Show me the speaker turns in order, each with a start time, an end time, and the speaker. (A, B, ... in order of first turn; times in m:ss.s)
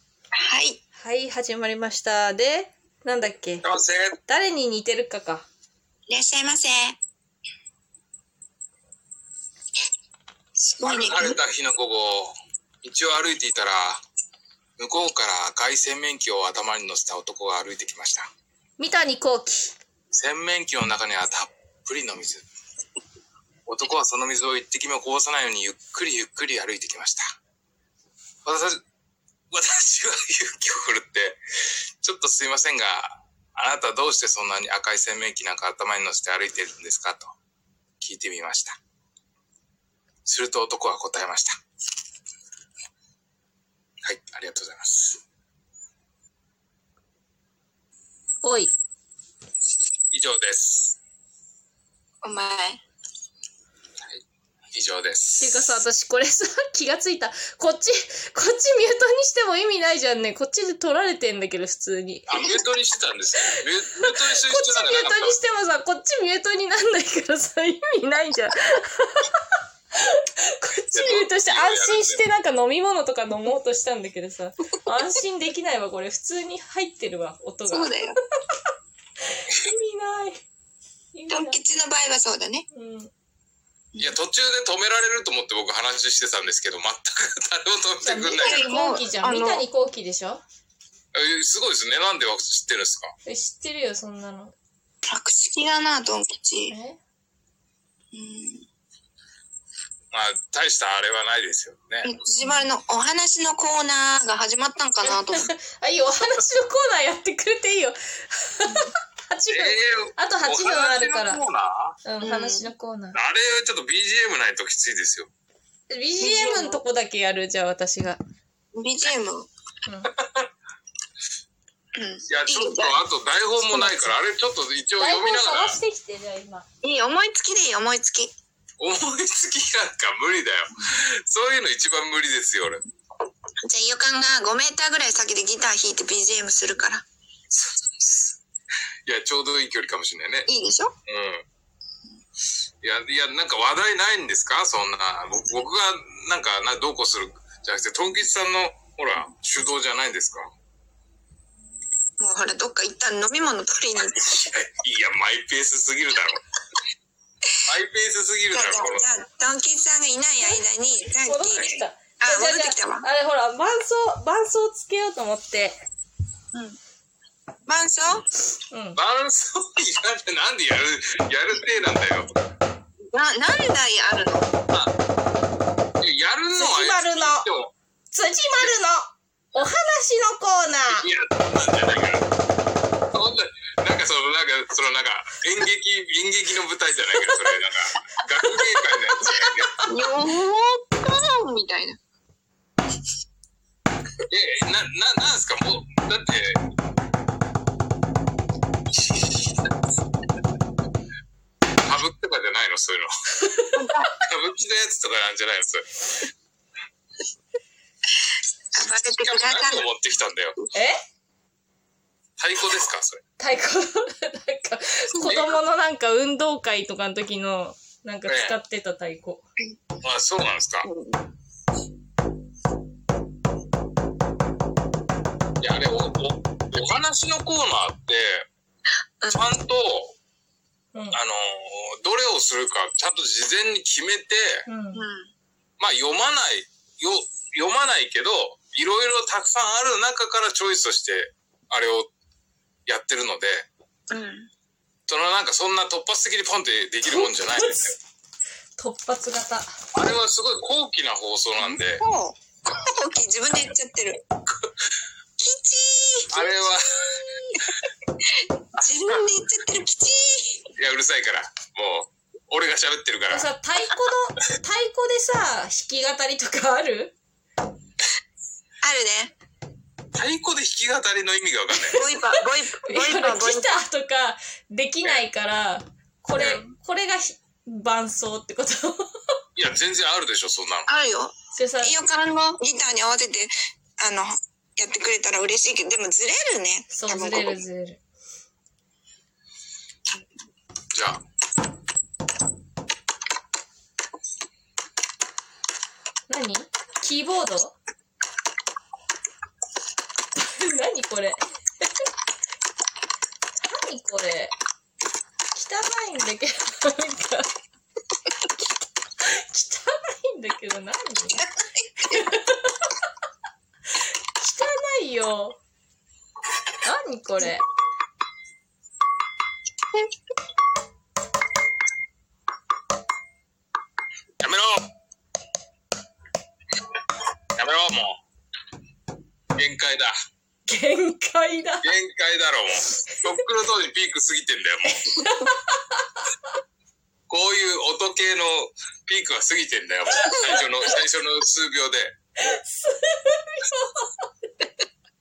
0:00.4-0:00.8 A
0:01.0-0:03.6 B
0:03.6-0:04.2 C
0:04.2-0:05.5 B
0:06.1-0:07.0 A
0:10.6-0:11.4 A
0:10.8-0:14.0 C
0:14.8-0:18.3 C
0:18.8-0:19.7 B
0:20.1-0:22.5 C
0:23.7-0:27.2 C
0:28.4-0:28.8 C
0:29.5-0:31.4 C
0:32.0-0:37.3 C
0:38.0-0:38.8 C
0:40.2-0:41.6 C
0:44.0-0:45.2 C
0:48.4-0:48.7 B
0:50.1-0:51.0 C
0:52.2-0:52.8 A
0:54.7-0:55.8 C
0:55.4-1:02.5 B
1:02.3-1:05.4 C
1:04.0-1:09.4 B
1:10.0-1:18.0 B
1:10.9-1:12.2 C
1:17.7-1:18.2 A
1:19.3-1:20.4 B
1:21.1-1:21.6 B
1:21.3-1:22.6 A
1:22.7-1:23.1 B
1:24.0-1:28.7 C
1:28.0-1:30.4 B
1:28.4-1:29.6 A
1:31.1-1:33.1 C
1:33.2-1:34.5 B
1:35.0-1:36.7 A
1:36.7-1:37.0 B
1:38.1-1:38.6 A
1:40.1-1:42.1 C
1:42.0-1:45.5 A
1:45.0-1:51.4 B
1:49.5-1:52.0 C
1:52.0-1:53.2 B
1:52.2-1:52.7 A
1:53.1-1:55.3 C
1:55.9-1:58.2 B
1:56.2-1:56.8 A
1:58.7-1:59.5 A
2:00.1-2:00.5 C
2:02.0-2:03.0 A
2:02.3-2:05.8 C
2:03.7-2:04.0 A
2:05.0-2:06.6 B
2:06.8-2:08.3 A
2:08.8-2:12.8 C
2:13.7-2:17.0 A
2:17.5-2:18.3 C
2:19.0-2:20.5 C
2:20.5-2:20.9 A
2:21.1-2:21.4 C
2:22.8-2:30.5 C
2:32.2-2:34.4 A
2:34.2-2:36.4 C
2:37.6-2:39.1 C
2:38.5-2:43.1 A
2:41.2-2:45.8 B
2:47.6-2:48.2 A
2:48.7-2:49.0 B
2:49.0-2:52.3 C
2:53.1-2:54.5 A
2:56.0-2:57.7 C
2:56.5-2:57.5 B
2:58.1-3:01.1 B
3:00.9-3:02.2 C
3:03.1-3:09.8 C
3:07.1-3:07.6 B
3:08.4-3:09.9 B
3:09.9-3:12.0 A
3:14.3-3:16.6 C
3:19.0-3:19.5 C
3:21.8-3:23.1 C
3:23.4-3:23.8 B
3:23.8-3:24.1 A
3:24.2-3:25.9 C
3:28.2-3:29.8 A
3:29.2-3:30.6 C
3:30.7-3:31.0 B
3:32.4-3:33.2 C
3:33.4-3:39.4 B
3:35.2-3:35.6 C
3:38.3-3:38.5 C
3:40.0-3:40.9 C
3:40.8-3:41.2 A
3:45.6-3:48.4 C
3:49.2-3:49.4 A
3:49.3-3:50.1 C
3:51.1-3:54.6 C
3:54.7-3:55.0 B
3:54.9-3:55.3 A
3:55.8-4:02.1 C
4:02.9-4:03.7 C
4:04.1-4:04.5 A
4:05.1-4:08.0 C
4:07.1-4:07.9 B
4:08.8-4:09.7 B
4:09.9-4:12.0 C
4:11.6-4:14.2 A
4:15.4-4:16.6 A
4:16.3-4:17.7 C
4:18.8-4:20.6 A
4:20.7-4:23.5 C
4:23.3-4:27.1 B
4:28.8-4:29.3 A
4:30.1-4:32.0 C
4:31.9-4:33.7 A
4:32.8-4:39.1 B
4:36.3-4:36.6 C
4:39.6-4:40.9 C
4:40.9-4:47.6 A
4:41.5-4:41.9 B
4:46.9-4:48.0 B
4:50.9-4:51.2 C
4:56.3-4:57.8 B
5:00.3-5:01.9 B
5:03.6-5:04.5 B
5:05.5-5:07.5 B
5:09.2-5:11.4 B
5:12.1-5:12.9 B
5:14.4-5:15.6 B
5:16.8-5:17.6 B
5:24.4-5:24.9 C
5:27.6-5:28.2 C
5:29.5-5:30.1 C
5:30.7-5:31.9 B
5:31.8-5:35.1 C
5:34.9-5:36.0 B
5:37.3-5:42.1 C
5:42.4-5:44.7 B